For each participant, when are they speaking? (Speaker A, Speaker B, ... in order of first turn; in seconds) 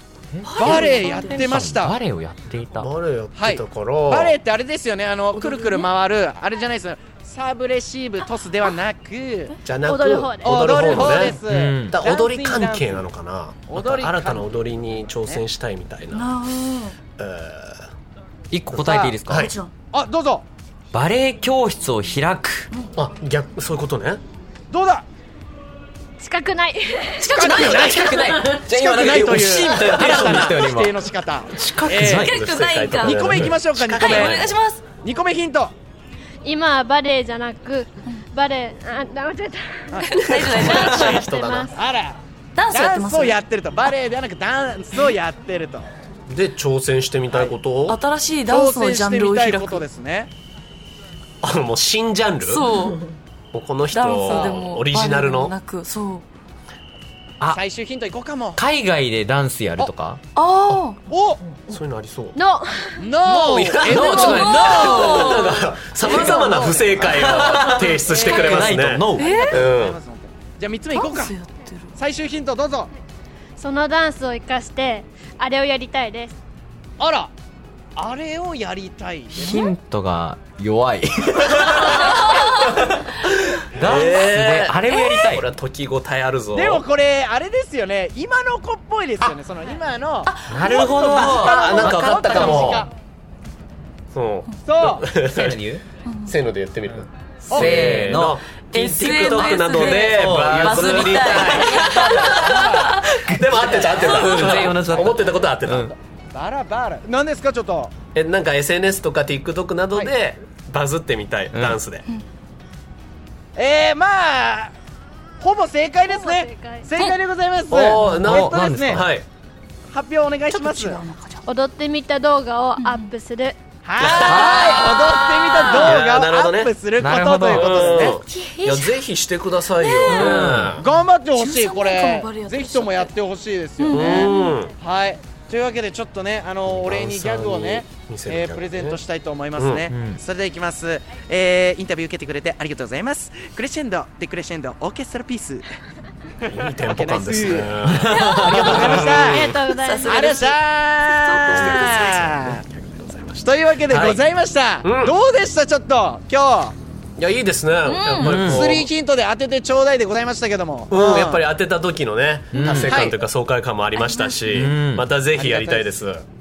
Speaker A: 0.3-2.9, 11.2-11.9, 18.5-19.5, 20.9-22.7, 28.0-31.0, 31.5-32.3, 58.6-60.2, 67.1-69.3, 79.3-82.8, 83.8-85.5, 90.5-92.0, 95.2-95.8, 97.5-102.3, 103.3-105.9, 111.5-111.8, 118.2-119.1, 124.2-124.8, 127.0-128.0, 130.1-130.8, 139.9-140.2, 147.9-148.7, 158.3-158.8, 162.5-163.0, 164.5-165.1
Speaker B: 0.4-1.6, 5.4-5.9, 16.1-16.9, 19.3-19.7, 27.2-28.5, 32.1-33.2, 33.9-34.8, 40.0-41.2, 42.5-43.4, 47.9-49.8, 52.4-53.1, 53.9-56.2, 60.4-61.0, 64.0-65.5, 69.2-69.7, 70.9-71.9, 81.8-82.1, 90.2-92.8, 96.1-96.3, 98.7-103.3, 120.5-121.4, 122.8-123.1, 124.7-126.0, 129.8-130.3, 131.3-133.1, 149.7-150.6, 151.1-152.0, 157.8-158.4, 164.0-164.4
Speaker C: 0.6-2.0, 3.3-9.6, 10.4-13.1, 13.7-14.5, 18.9-19.1, 19.9-20.4, 24.7-25.1, 27.3-32.3, 33.0-34.4, 35.0-35.7, 39.9-40.2, 41.7-45.9, 47.3-47.6, 48.5-50.3, 54.2-54.6, 57.5-58.6, 61.1-61.4, 63.0-65.5, 66.0-67.4, 68.0-71.4, 72.0-72.9, 77.0-77.3, 78.0-79.7, 86.5-92.9, 94.7-95.1, 97.5-97.9, 101.5-102.9, 106.3-107.9, 113.5-114.7, 115.4-119.1, 119.9-121.0, 123.8-128.2, 130.7-145.7, 146.8-147.8, 148.5-149.5, 150.1-152.6, 153.4-156.8, 158.3-161.5, 162.8-163.2, 165.3-165.9
Speaker D: 2.8-4.4, 9.7-16.3, 17.2-17.9, 18.7-19.5, 23.0-24.2, 32.0-34.6, 40.4-41.7, 46.3-48.0, 51.4-52.6, 53.5-55.6, 61.7-62.4, 63.3-70.0, 83.8-86.8, 90.7-92.9, 94.1-95.6, 96.2-101.8, 103.2-105.9, 108.1-112.0, 117.7-119.3, 124.0-124.8, 125.8-126.7, 127.5-130.8, 133.9-134.7, 136.7-139.0, 139.6-139.9, 146.5-149.5, 151.4-154.2, 154.8-155.2, 157.2-158.9, 160.9-166.2
Speaker E: 9.9-11.2, 26.2-27.3, 36.4-41.8, 62.4-63.1, 64.0-65.0, 73.6-76.4, 116.0-116.9, 121.4-124.1, 125.1-125.6, 128.2-128.9, 133.9-134.6, 148.1-150.3